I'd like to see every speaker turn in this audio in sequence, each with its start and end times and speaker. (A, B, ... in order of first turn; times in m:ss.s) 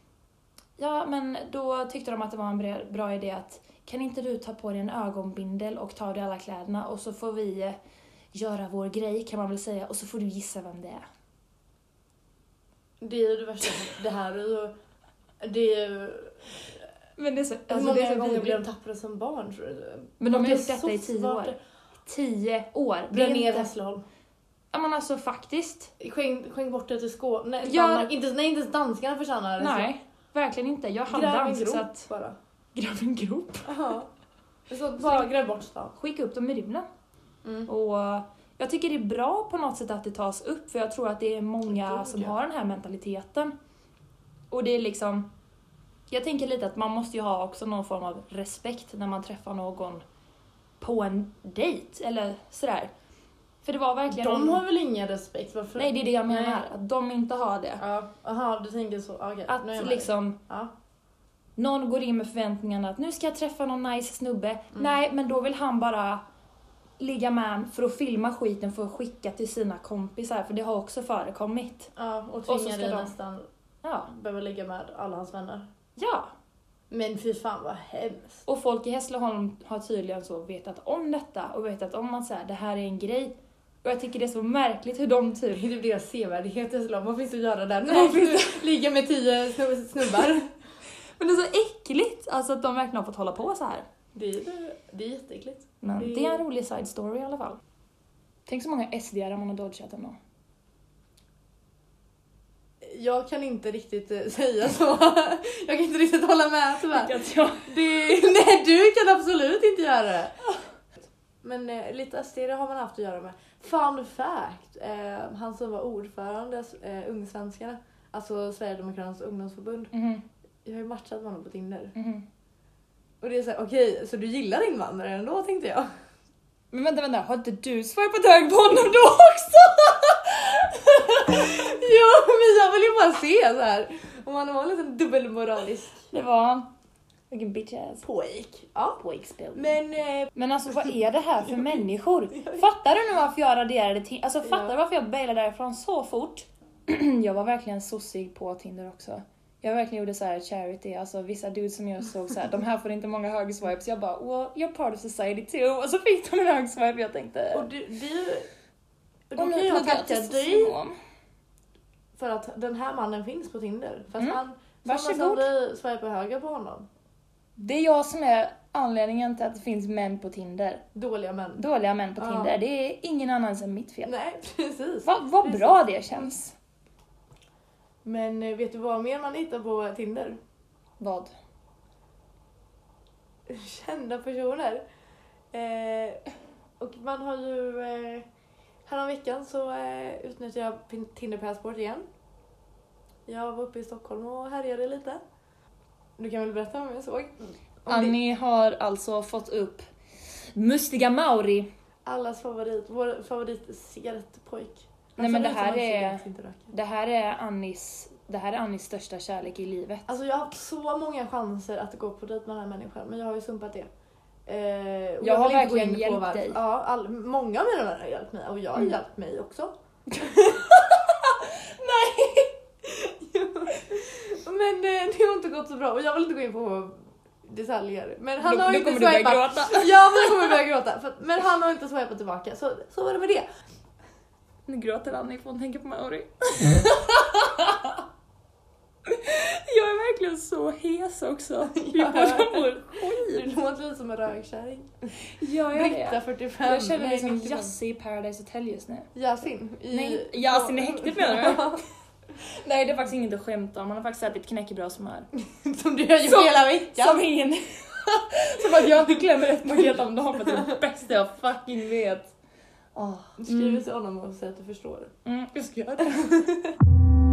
0:00.8-0:07.8 A
0:08.3-0:11.0 A
0:13.0-0:14.7 B
0:15.4-0:16.4 B
0:17.2-0:18.6 A
0:17.7-0:21.6 B
0:20.2-0:21.5 A
0:22.0-0:23.7 A
0:23.1-0:24.0 B
0:24.7-0:25.9 A
0:26.0-0:29.9 B
0:27.6-0:28.1 A
0:29.6-0:32.1 A
0:31.1-0:32.4 B
0:32.7-0:33.7 A
0:33.6-0:34.1 B
0:34.7-0:35.9 B
0:35.9-0:36.9 A
0:37.4-0:37.7 B
0:37.7-0:43.5 A
0:41.7-0:42.4 B
0:44.5-0:45.3 A
0:46.1-0:50.0 A
0:50.8-0:52.9 A
0:53.6-0:54.6 A
0:54.1-0:56.6 B
0:55.8-0:57.8 A
0:57.8-1:00.7 B
0:59.5-1:00.4 A
1:01.6-1:06.2 A
1:07.0-1:11.9 A
1:12.0-1:13.5 B
1:12.5-1:13.1 A
1:13.8-1:14.1 A
1:14.1-1:15.7 B
1:16.0-1:16.3 A
1:16.9-1:18.4 B
1:18.4-1:25.6 A
1:25.5-1:30.5 B
1:27.9-1:28.6 A
1:31.2-1:33.8 A
1:34.1-1:36.4 B
1:35.8-1:37.6 A
1:38.5-1:40.2 A
1:42.8-1:50.3 B
1:46.9-1:47.8 A
1:51.4-1:59.9 B
1:59.9-2:00.2 A
2:00.6-2:01.9 B
2:01.9-2:02.2 A
2:03.2-2:05.9 B
2:06.7-2:11.3 A
2:11.1-2:16.1 B
2:16.1-2:16.7 A
2:17.3-2:18.0 A
2:18.0-2:19.0 B
2:19.0-2:19.8 A
2:19.5-2:20.3 B
2:20.3-2:37.7 A
2:21.4-2:22.7 B
2:24.4-2:24.7 B
2:37.5-2:38.5 B
2:39.3-2:40.7 B
2:39.4-2:41.0 A
2:42.2-2:46.9 B
2:44.2-2:45.5 A
2:47.6-2:50.8 A
2:50.9-2:51.6 B
2:51.6-2:54.1 A
2:52.2-2:52.5 B
2:54.0-2:55.8 B
2:55.0-2:56.6 A
2:58.0-3:00.4 B
3:01.0-3:01.3 A
3:03.5-3:04.8 B
3:05.5-3:06.2 B
3:06.8-3:08.3 B
3:08.8-3:12.0 B
3:13.2-3:15.2 B
3:16.2-3:18.2 B
3:17.9-3:19.9 A
3:20.5-3:21.7 A
3:22.0-3:26.7 B
3:25.2-3:30.1 A
3:30.1-3:33.9 B
3:34.4-3:40.9 B
3:35.2-3:36.6 A
3:40.1-3:42.5 A
3:42.8-3:53.4 B
3:48.4-3:50.6 A
3:54.7-3:58.0 A
3:59.1-4:03.4 A
4:01.7-4:04.9 B
4:05.2-4:09.1 A
4:05.7-4:07.7 B
4:09.1-4:11.8 B
4:09.9-4:11.8 A
4:12.4-4:15.3 A
4:15.4-4:17.2 B
4:16.2-4:22.3 A
4:20.4-4:20.8 B
4:22.9-4:23.8 A
4:23.4-4:25.1 B
4:25.2-4:26.5 A
4:26.0-4:26.7 B